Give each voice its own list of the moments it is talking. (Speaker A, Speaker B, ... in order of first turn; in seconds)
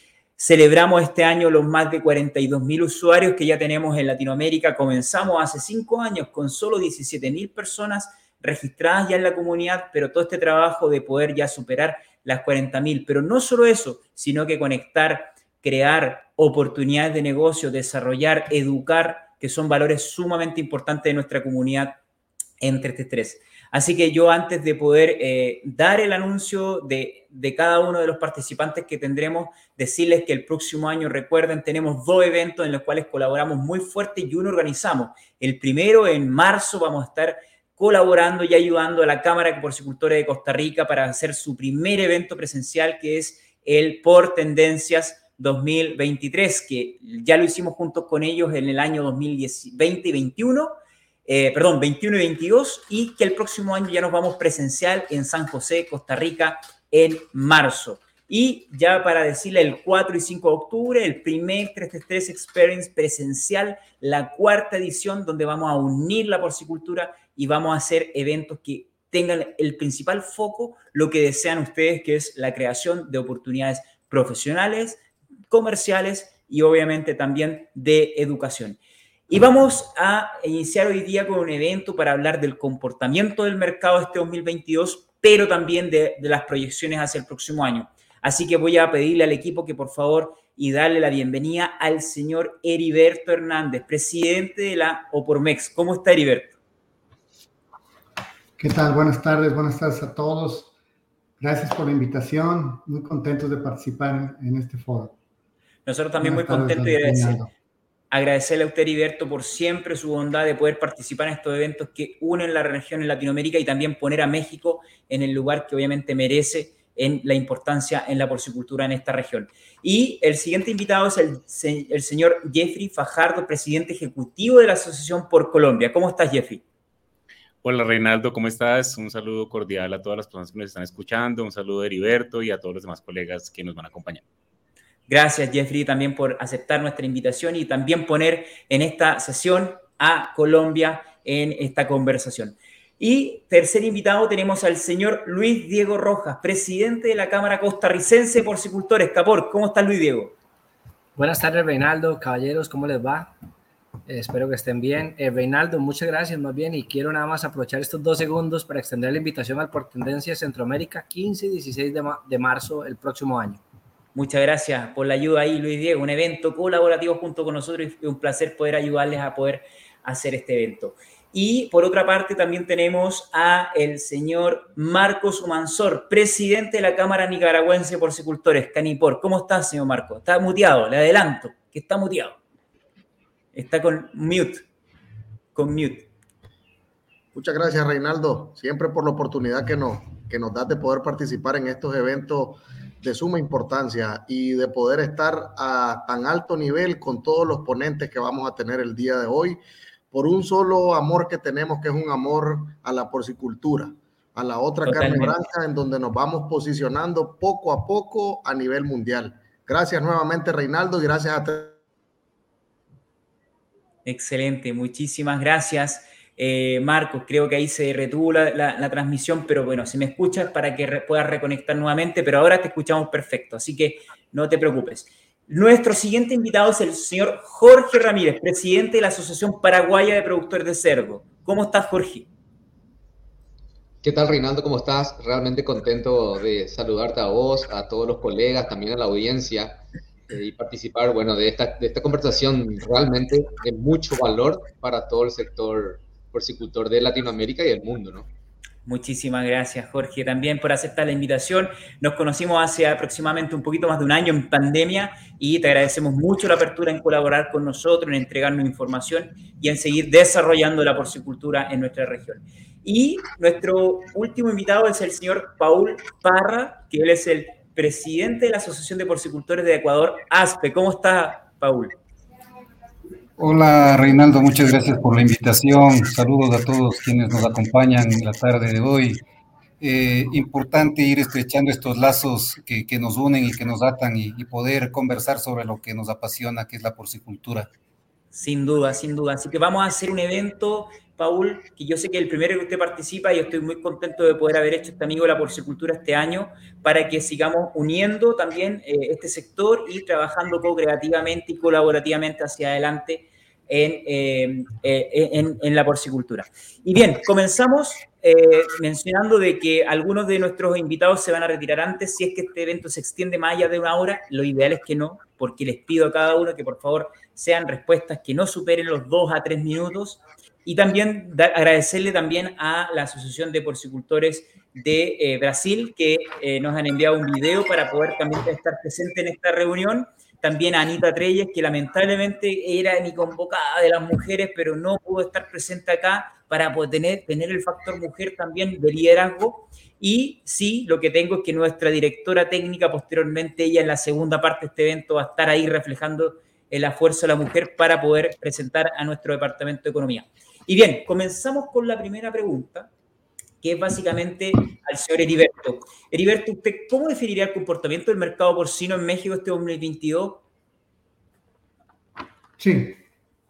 Speaker A: 0.4-22.0, 22.6-50.8, 51.3-96.5, 105.9-107.4, 108.1-126.6, 135.1-150.3, 164.2-182.4, 183.5-184.7, 185.6-186.1, 204.8-205.3, 214.1-232.3, 248.9-272.0, 288.3-352.9, 353.6-360.4
Speaker B: 98.6-100.7, 101.4-105.2, 106.2-107.5, 362.6-363.0
Speaker C: 127.6-134.2
Speaker D: 151.2-153.3, 154.1-163.6
Speaker E: 187.3-211.8
Speaker F: 234.0-248.3
Speaker G: 273.4-279.2, 279.8-287.7